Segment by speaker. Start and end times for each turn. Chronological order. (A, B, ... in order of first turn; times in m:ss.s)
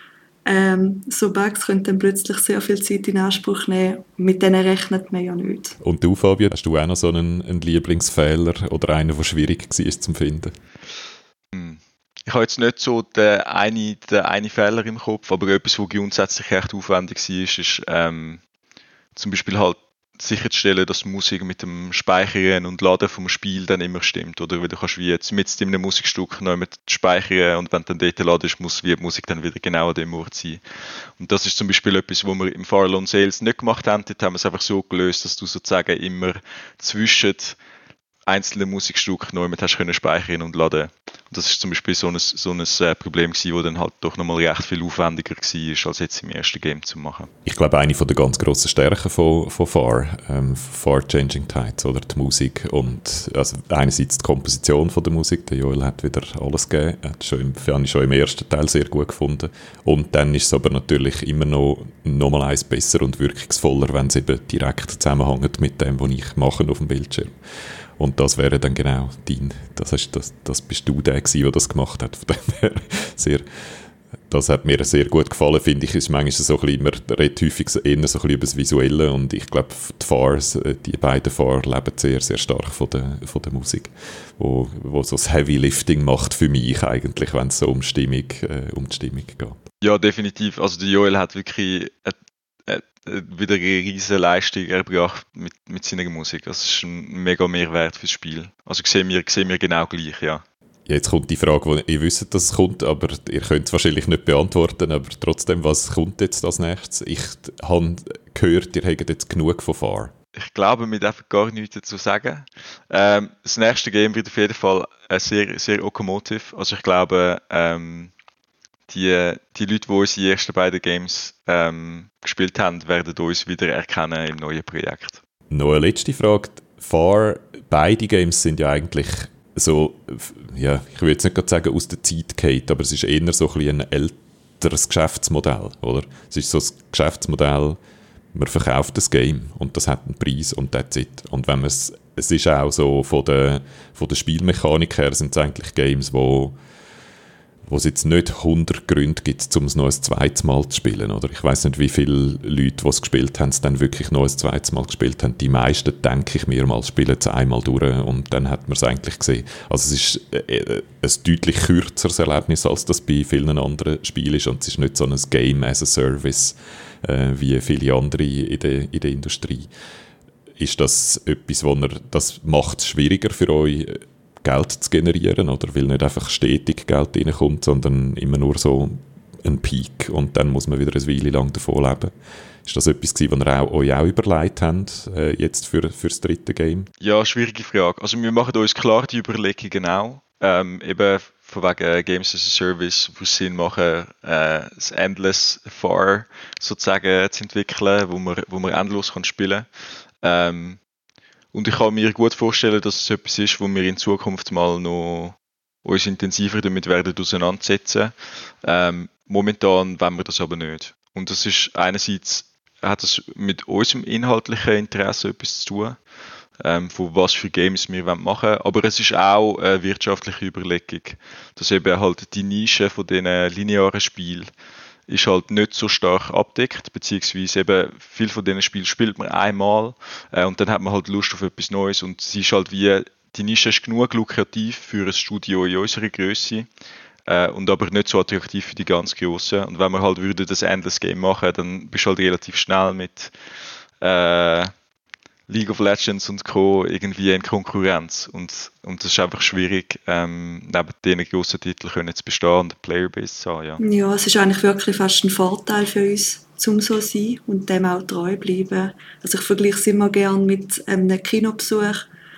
0:00.4-0:05.8 A
0:05.8-0:10.5 B
0:11.5-0:18.4 C
0:19.2-0:30.6 C
0:31.2-0:37.6 C
0:38.3-0:47.3 C
0:47.4-1:07.3 B
1:08.0-1:13.4 B
1:14.3-1:29.6 B
1:29.8-1:32.2 C
1:32.7-1:40.4 C
1:40.9-1:50.1 B
1:50.3-1:58.1 C
1:58.9-2:05.2 C
2:05.5-2:17.8 B
2:18.3-2:26.5 B
2:27.7-2:49.7 B
2:50.6-3:02.1 B
3:02.6-3:06.9 B
3:07.0-3:19.7 C
3:20.2-3:20.8 C
3:21.5-3:36.0 C
3:36.6-3:44.5 C
3:45.1-3:56.7 C
3:57.3-4:03.3 C
4:04.0-4:04.7 C
4:05.5-4:13.8 C
4:13.8-4:22.1 A